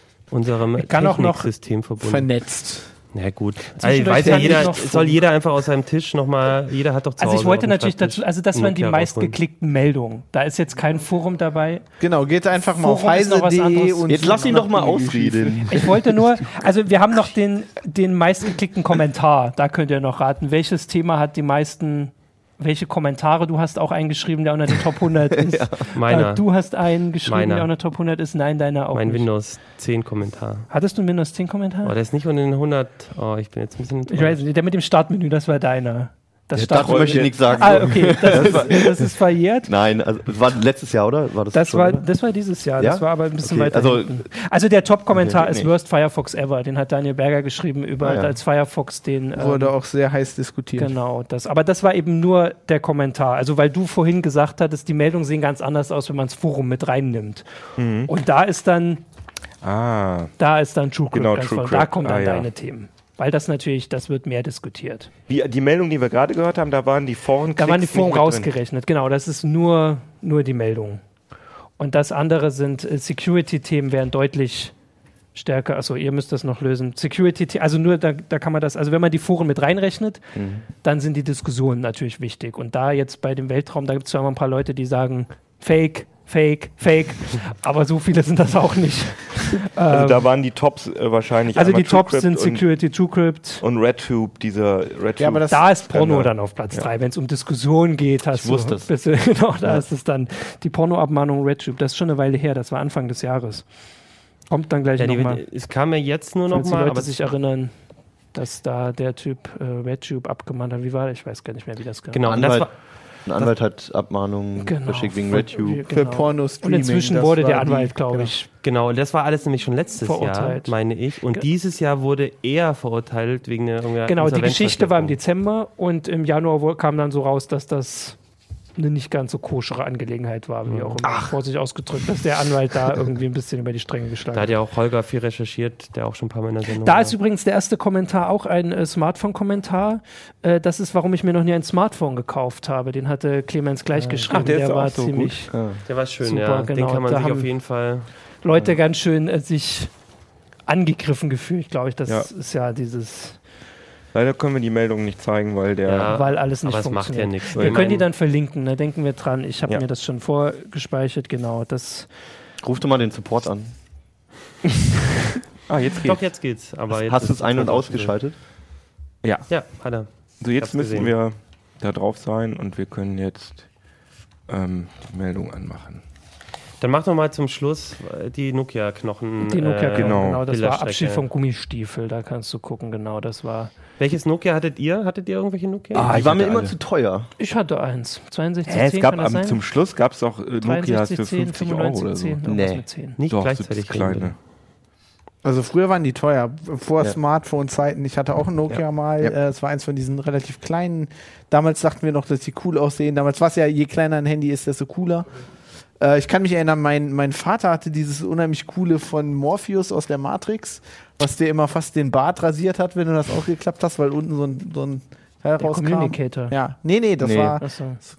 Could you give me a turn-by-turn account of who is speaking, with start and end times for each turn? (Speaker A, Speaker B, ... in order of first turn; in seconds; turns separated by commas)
Speaker A: 0.3-2.3, Speaker B: 0.8-1.5, Speaker C: 2.0-2.9, Speaker A: 3.1-9.4, Speaker B: 3.8-5.2, Speaker C: 4.2-4.6, Speaker B: 7.2-11.9, Speaker C: 12.0-15.8, Speaker B: 12.7-14.6, Speaker D: 14.1-16.2, Speaker B: 15.7-29.3, Speaker D: 25.3-25.8, Speaker A: 25.9-26.6, Speaker A: 27.2-27.7, Speaker A: 28.9-30.7, Speaker B: 30.7-31.9, Speaker A: 31.8-34.4, Speaker B: 34.1-39.7, Speaker D: 36.5-39.1, Speaker E: 36.8-38.8, Speaker D: 39.6-42.2, Speaker B: 41.5-49.7, Speaker D: 42.8-44.2, Speaker E: 45.3-45.7, Speaker D: 48.0-48.4, Speaker C: 49.3-50.9, Speaker B: 50.8-57.4, Speaker E: 57.8-58.1, Speaker B: 58.0-59.0, Speaker E: 59.6-60.3, Speaker B: 60.4-65.1, Speaker E: 61.1-62.5, Speaker E: 65.3-68.5, Speaker B: 67.5-71.0, Speaker B: 71.8-74.7, Speaker B: 75.3-80.2, Speaker D: 80.3-80.6, Speaker B: 80.8-90.3, Speaker E: 89.9-92.8, Speaker B: 91.5-93.6, Speaker E: 93.6-96.9, Speaker C: 95.2-95.6, Speaker B: 95.5-103.6, Speaker D: 98.3-99.8, Speaker B: 104.5-105.4, Speaker A: 105.0-107.2, Speaker B: 106.5-107.7, Speaker B: 108.3-112.2, Speaker A: 112.1-112.7, Speaker D: 112.2-115.8, Speaker B: 114.6-118.5, Speaker C: 115.9-118.3, Speaker A: 118.6-125.2, Speaker B: 120.0-120.7, Speaker B: 124.0-128.2, Speaker B: 128.8-134.5, Speaker A: 130.7-131.0, Speaker A: 134.3-137.1, Speaker B: 136.8-145.5, Speaker E: 144.1-145.5, Speaker D: 145.5-145.8, Speaker A: 145.9-148.1, Speaker B: 146.2-147.5, Speaker B: 148.4-149.9, Speaker B: 150.7-153.4, Speaker E: 154.1-156.2, Speaker A: 155.8-158.1, Speaker B: 156.1-162.1, Speaker E: 157.5-157.9, Speaker D: 162.6-163.7, Speaker E: 165.7-166.2, Speaker A: 166.0-168.2, Speaker D: 166.9-168.3, Speaker E: 169.2-169.8, Speaker A: 169.5-171.1, Speaker E: 170.4-173.7, Speaker E: 174.5-176.0, Speaker A: 176.8-181.2, Speaker B: 179.4-183.7, Speaker E: 179.9-180.4, Speaker A: 184.0-186.1, Speaker E: 185.9-186.8, Speaker D: 185.9-187.3, Speaker B: 187.4-189.6, Speaker E: 188.7-192.4, Speaker B: 190.6-193.2, Speaker D: 192.4-192.8, Speaker A: 193.2-194.3, Speaker E: 193.3-194.3, Speaker C: 195.4-205.3, Speaker C: 206.0-217.6, Speaker B: 215.6-216.6, Speaker D: 217.2-217.6, Speaker B: 217.6-218.0